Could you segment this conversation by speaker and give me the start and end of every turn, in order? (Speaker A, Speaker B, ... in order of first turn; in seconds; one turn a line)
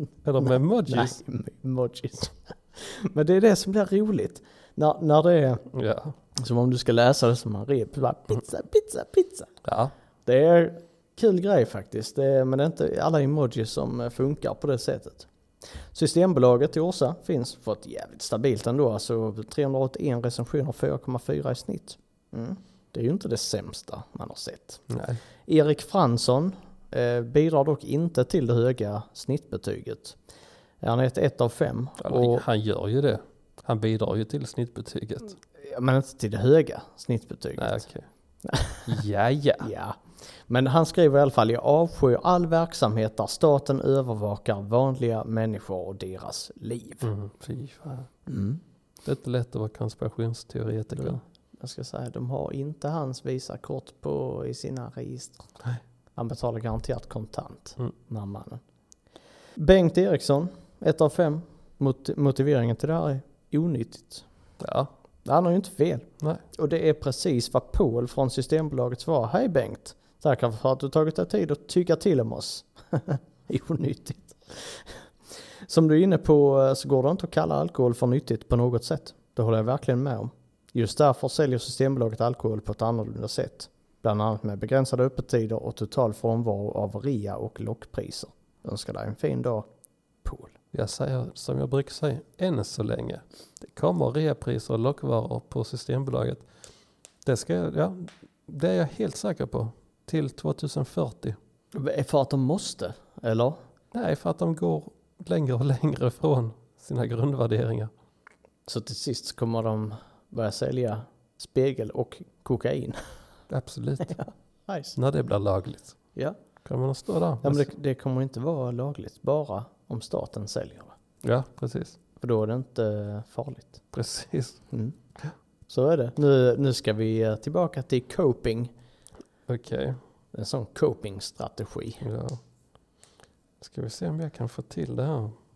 Speaker A: 0.2-1.2
Speaker B: 0.4-5.7
Speaker A: 5.7-6.1
Speaker B: 6.3-9.5
Speaker A: 9.6-9.9
Speaker B: 10.2-15.3
Speaker B: 15.9-24.9
Speaker A: 24.9-25.2
Speaker B: 25.4-30.2
Speaker B: 30.8-32.4
Speaker A: 32.0-35.4
Speaker B: 35.6-37.9
Speaker A: 37.6-38.1
Speaker B: 38.4-38.9
Speaker A: 38.9-39.7
Speaker B: 39.6-47.1
Speaker A: 47.0-48.1
Speaker B: 48.3-48.6
Speaker A: 49.0-51.2
Speaker B: 51.0-55.5
Speaker B: 56.1-58.6
Speaker B: 59.5-64.2
Speaker A: 64.6-64.9
Speaker B: 65.2-75.0
Speaker B: 75.7-89.7
Speaker B: 90.2-90.5
Speaker A: 90.7-96.5
Speaker A: 97.2-101.4
Speaker B: 101.7-103.6
Speaker A: 103.9-107.9
Speaker B: 108.7-113.0
Speaker A: 113.5-114.2
Speaker B: 114.0-115.0
Speaker A: 115.0-116.0
Speaker A: 116.6-117.7
Speaker B: 117.4-120.9
Speaker A: 121.2-122.0
Speaker B: 122.2-123.8
Speaker A: 123.9-124.6
Speaker B: 125.7-128.7
Speaker A: 129.5-130.0
Speaker B: 130.3-132.0
Speaker A: 132.0-132.4
Speaker A: 133.6-135.4